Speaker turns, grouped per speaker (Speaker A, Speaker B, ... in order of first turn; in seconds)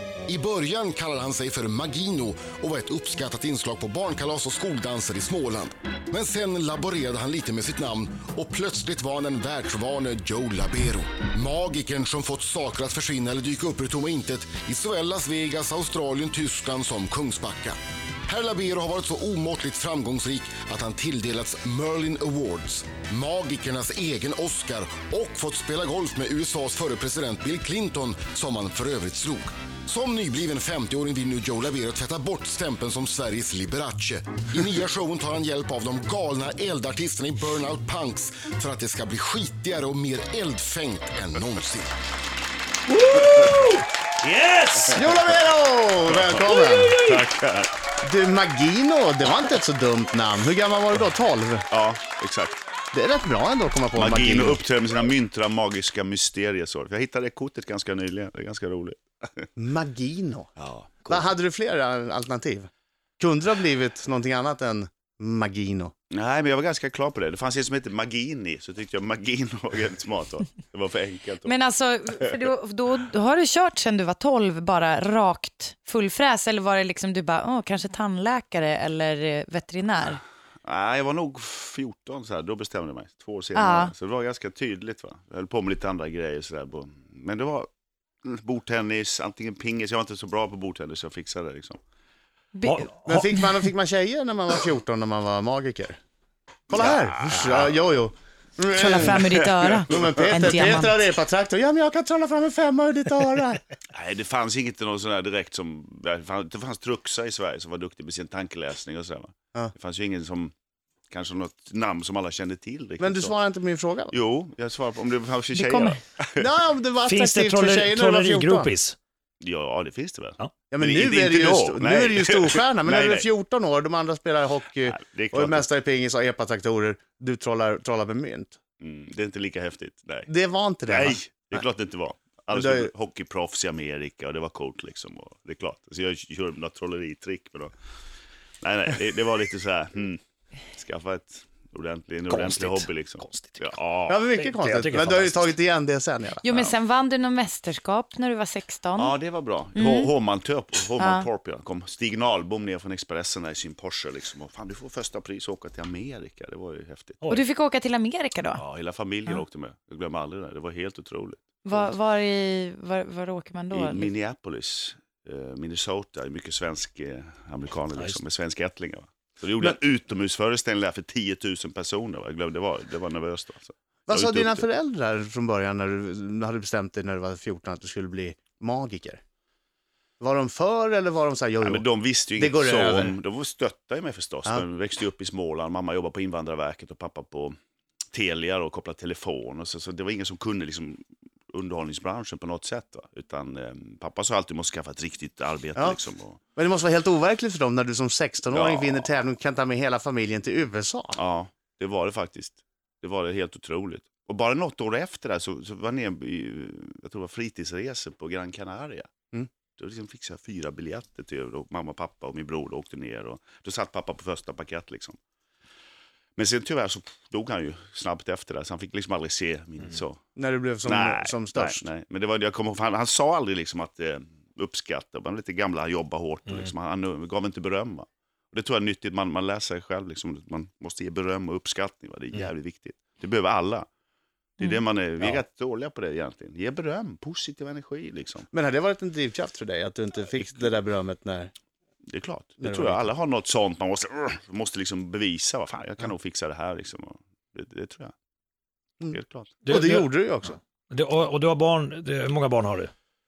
Speaker A: 0.3-41.9
Speaker B: 42.9-45.0, 46.4-47.3, 92.6-93.3, 117.0-119.0, 142.3-143.7, 144.3-145.5, 249.6-252.9
Speaker C: 44.9-47.0, 48.0-51.7, 52.9-54.6, 59.6-60.5, 61.1-62.7, 63.2-65.9, 93.0-96.0, 96.7-99.2, 99.9-103.6, 113.0-114.2, 116.4-118.7, 120.7-128.6, 130.3-131.6, 132.5-132.9, 144.1-146.5, 174.1-179.2, 180.2-183.2, 196.6-201.2, 220.4-221.8, 238.5-241.5, 242.6-243.1, 249.7-250.6
Speaker D: 46.1-46.5, 47.0-47.7, 51.7-52.6, 54.0-59.5, 60.6-61.3, 66.1-71.5, 80.6-87.7, 88.2-91.8, 96.7-97.7, 99.0-99.7, 103.9-110.5, 111.1-113.4, 114.1-116.5, 119.4-123.3, 124.9-125.7, 128.8-130.3, 130.9-137.7, 138.6-140.2, 140.8-144.2, 149.0-157.2, 158.6-161.9, 163.7-174.6, 181.6-187.6, 188.1-196.4, 198.5-199.1, 201.2-209.1, 209.8-215.2, 216.4-220.2, 220.8-233.9, 234.6-238.5, 242.1-248.1, 249.1-249.6
Speaker E: 71.5-80.2, 83.5-83.9, 92.5-92.9, 98.7-101.0, 115.5-116.0, 146.4-149.2, 149.8-150.1, 151.0-151.3, 157.3-158.6, 161.6-164.1